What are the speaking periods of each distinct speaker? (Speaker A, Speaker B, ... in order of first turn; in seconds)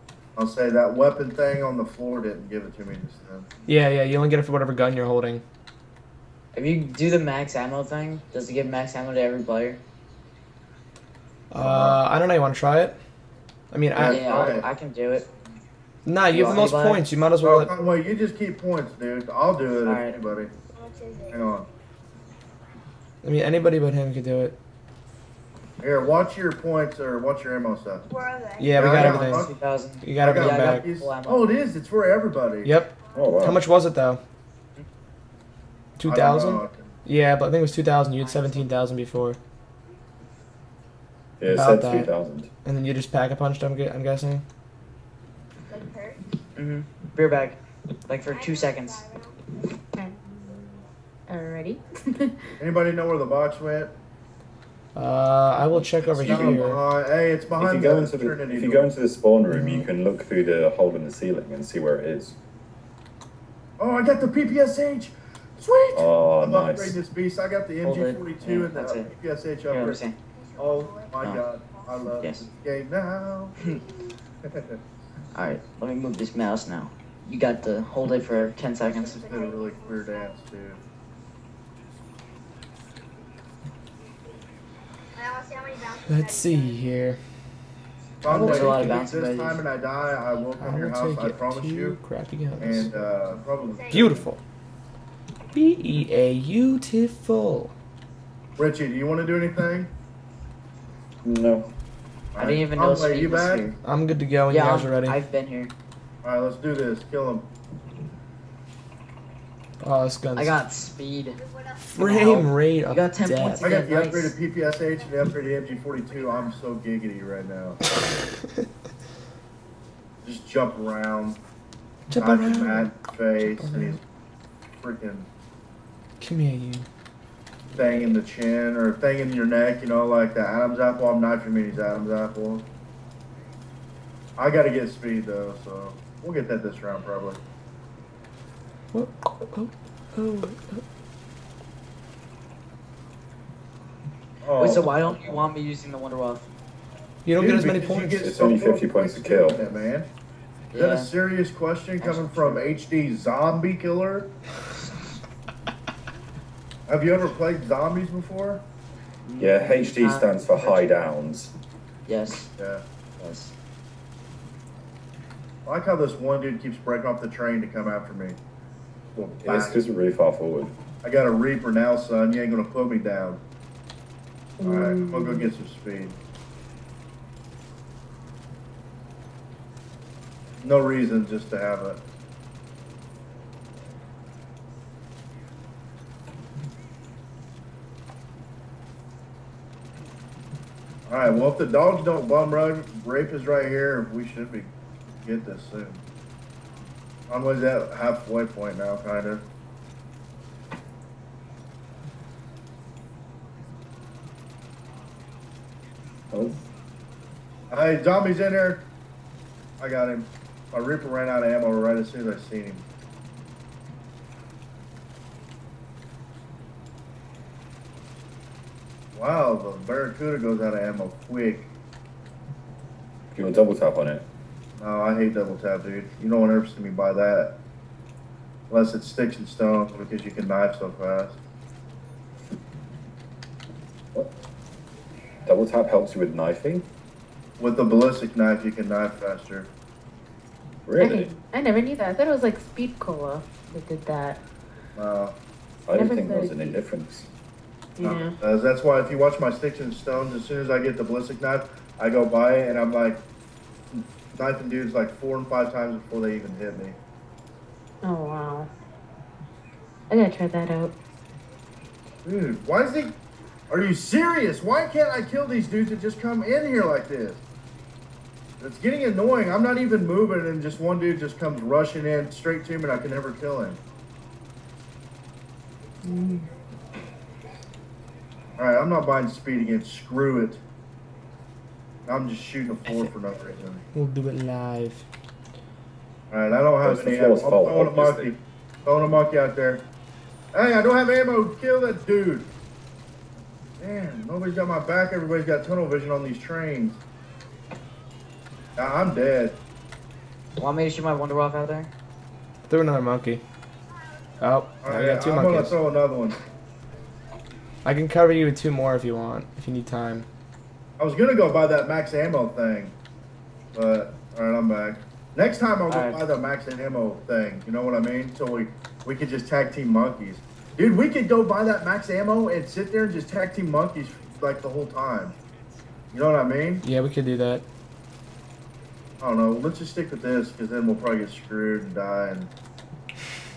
Speaker A: 0.3-3.5, 11.6-12.0, 13.9-14.7, 17.4-20.5, 21.3-21.7, 25.8-28.1, 28.8-29.5, 30.2-32.7, 36.0-36.9, 52.6-53.9, 56.2-58.9, 63.8-70.0, 70.6-73.6, 74.5-74.8, 78.9-80.8, 88.2-92.0, 92.6-94.2, 98.6-99.9, 102.3-103.7, 106.2-107.5, 113.6-117.8, 120.2-121.4, 122.2-124.0, 124.8-125.3, 127.7-132.7, 134.4-137.4, 144.4-145.5, 147.4-150.1, 150.7-154.3, 156.9-158.6, 162.6-162.8, 165.7-168.4, 169.1-169.8, 171.0-173.4, 174.6-176.2, 180.6-182.0, 191.1-196.0, 197.3-199.4, 207.7-208.9, 209.8-212.8, 219.1-221.7, 224.8-227.6, 228.7-231.4, 237.6-239.7, 244.9-245.3, 248.0-253.2, 253.9-256.9, 262.2-263.1, 263.7-267.4, 268.6-273.8, 278.6-280.6, 282.1-283.8, 286.3-289.8, 290.5-292.5, 293.8-297.0, 298.8-299.6, 304.8-306.4, 311.0-312.9, 313.7-325.3, 326.1-326.8, 329.2-332.5
Speaker B: 3.6-5.4, 11.5-12.9, 13.7-14.6, 16.0-17.7, 23.2-24.5, 28.6-29.5, 30.0-30.9, 32.6-34.2, 36.0-39.4, 41.5-42.1, 42.6-44.4, 54.9-56.8, 59.5-59.9, 86.0-87.2, 88.2-89.0, 90.6-92.9, 93.9-94.4, 95.5-97.7, 103.8-105.2, 109.8-110.5, 111.9-113.7, 122.1-122.9, 123.4-124.0, 126.2-126.8, 138.9-140.8, 147.2-148.3, 282.9-283.1, 283.9-285.0, 302.7-303.4, 304.4-305.8, 307.8-310.2, 326.8-327.6
Speaker C: 6.5-9.8, 14.0-15.3, 16.3-17.0, 19.8-20.2, 28.9-31.6, 46.5-49.0, 67.8-69.1, 69.7-70.2, 72.2-72.4, 75.3-79.2, 88.2-89.6, 102.4-103.8, 104.5-105.7, 110.3-111.4, 112.0-114.3, 144.6-146.5, 150.7-151.1, 152.0-152.7, 159.2-160.9, 162.1-162.5, 163.2-163.5, 300.6-301.9, 315.9-316.2
Speaker D: 20.7-21.6, 28.1-28.9, 33.1-33.5, 38.1-38.6, 45.7-46.2, 48.2-49.5, 70.3-72.3, 73.6-74.0, 78.8-80.4, 85.1-86.9, 93.6-94.2, 111.3-111.9, 114.8-116.6
Speaker E: 33.1-33.6, 41.4-42.5, 55.8-56.6, 57.6-62.4, 65.9-67.0, 101.2-101.7, 148.2-149.6, 159.4-161.5, 169.4-170.7, 206.3-206.6, 223.3-224.2, 235.4-236.8, 240.9-241.3, 245.9-247.3, 286.8-288.3
Speaker F: 49.9-52.5, 174.6-175.5, 241.0-244.4, 245.9-246.8, 248.0-248.3, 258.0-258.7, 260.1-260.9, 276.0-276.4